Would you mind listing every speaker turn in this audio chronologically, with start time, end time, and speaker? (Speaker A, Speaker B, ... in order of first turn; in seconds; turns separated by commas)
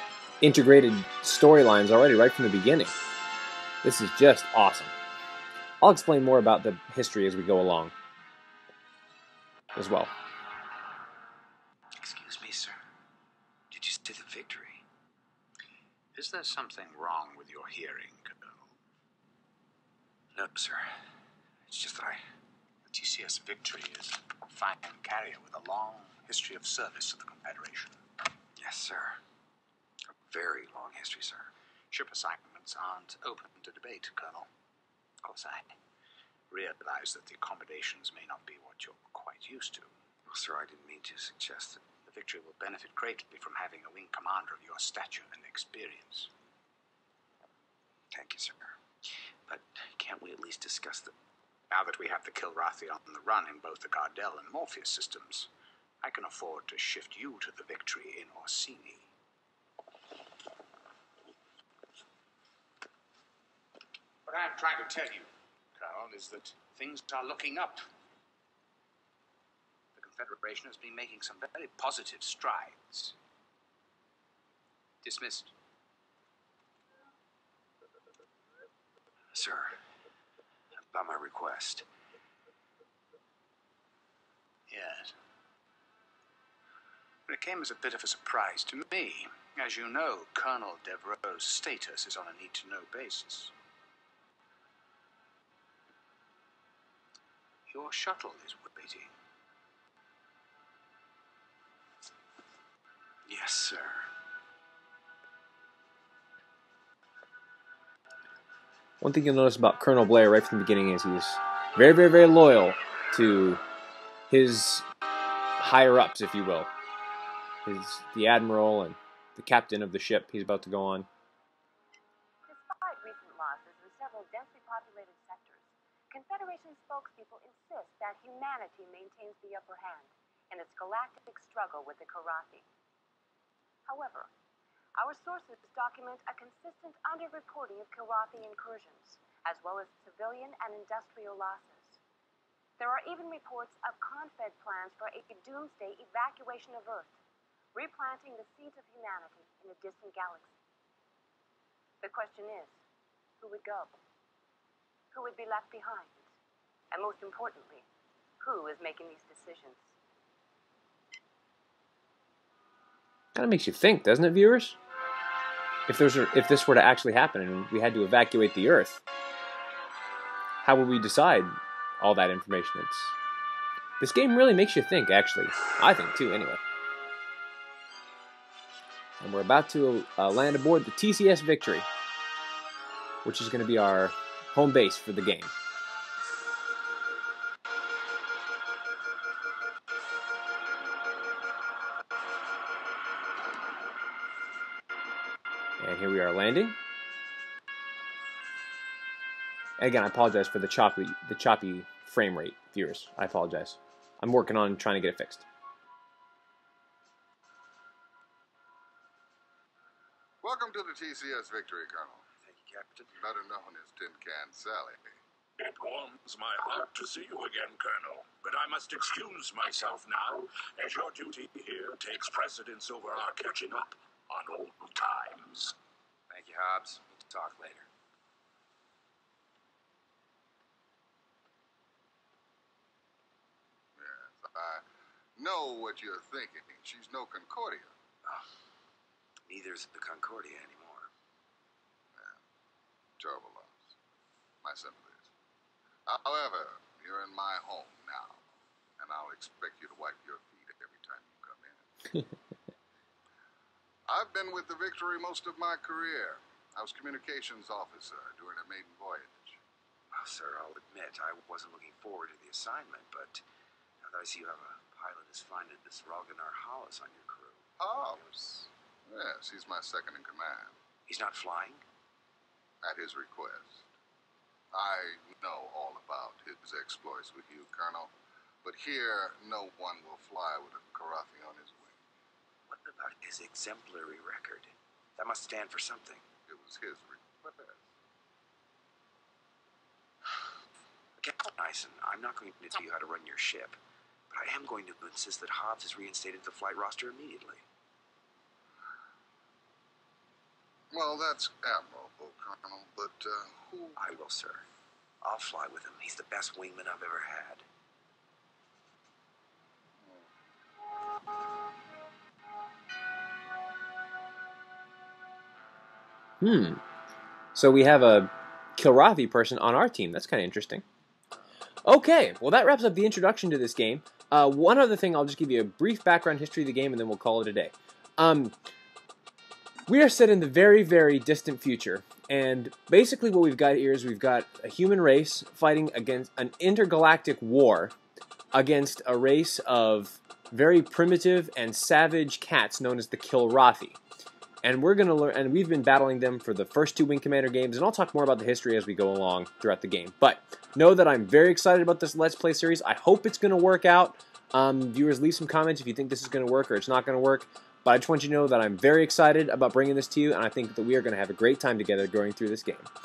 Speaker A: 0.4-2.9, Speaker A: 3.8-4.9, Speaker A: 5.8-7.9, Speaker A: 9.8-10.1, Speaker B: 12.0-12.8, Speaker B: 13.7-14.8, Speaker C: 16.1-18.8, Speaker B: 20.3-20.9, Speaker B: 21.7-22.2, Speaker C: 22.9-28.0, Speaker B: 28.6-29.2, Speaker B: 30.2-31.5, Speaker C: 31.9-34.5, Speaker C: 35.2-35.7, Speaker C: 36.5-39.9, Speaker B: 40.3-41.9, Speaker C: 42.0-46.3, Speaker B: 48.1-48.8, Speaker B: 49.5-51.1, Speaker C: 51.7-55.5, Speaker C: 56.0-59.1, Speaker C: 64.3-67.9, Speaker C: 70.0-73.2, Speaker C: 75.0-75.5, Speaker B: 79.3-79.8, Speaker B: 80.9-81.9, Speaker C: 84.7-85.1, Speaker C: 87.3-93.5, Speaker C: 97.7-99.1, Speaker B: 103.3-104.1, Speaker A: 109.0-113.6, Speaker A: 114.3-114.9, Speaker A: 115.6-116.7, Speaker A: 117.7-121.1, Speaker D: 122.5-132.7, Speaker D: 133.9-134.3, Speaker D: 135.0-142.0, Speaker D: 142.8-147.1, Speaker D: 147.7-150.5, Speaker D: 152.0-152.7, Speaker D: 153.4-153.9, Speaker D: 155.1-156.2, Speaker D: 156.9-157.9, Speaker D: 158.4-159.9, Speaker A: 163.3-164.8, Speaker A: 165.9-169.0, Speaker A: 170.6-173.2, Speaker A: 174.0-176.6, Speaker A: 179.2-181.9, Speaker A: 183.2-185.5, Speaker A: 195.8-196.8, Speaker A: 199.8-205.5, Speaker E: 210.4-212.2, Speaker B: 212.4-213.2, Speaker E: 213.2-215.0, Speaker F: 215.6-225.8, Speaker B: 226.3-227.9, Speaker E: 234.0-234.8, Speaker E: 235.4-237.9, Speaker B: 239.5-241.1, Speaker E: 242.2-242.4, Speaker E: 243.2-243.9, Speaker E: 244.6-245.3, Speaker E: 246.1-248.4, Speaker E: 249.0-251.9, Speaker E: 254.1-259.6, Speaker B: 260.1-263.4, Speaker B: 264.0-268.7, Speaker E: 267.8-268.2, Speaker E: 269.1-270.8, Speaker B: 271.1-271.8, Speaker E: 272.8-273.9, Speaker E: 274.7-278.1, Speaker E: 278.6-282.0, Speaker B: 282.7-286.3, Speaker E: 286.5-287.9, Speaker B: 291.2-293.8, Speaker B: 294.3-297.6, Speaker E: 300.9-304.0, Speaker B: 304.0-304.7, Speaker B: 305.2-307.6, Speaker E: 310.0-310.3, Speaker A: 316.4-316.8, Speaker A: 317.6-320.8, Speaker A: 321.9-328.5, Speaker A: 329.9-337.9, Speaker A: 338.5-344.0, Speaker A: 344.6-362.9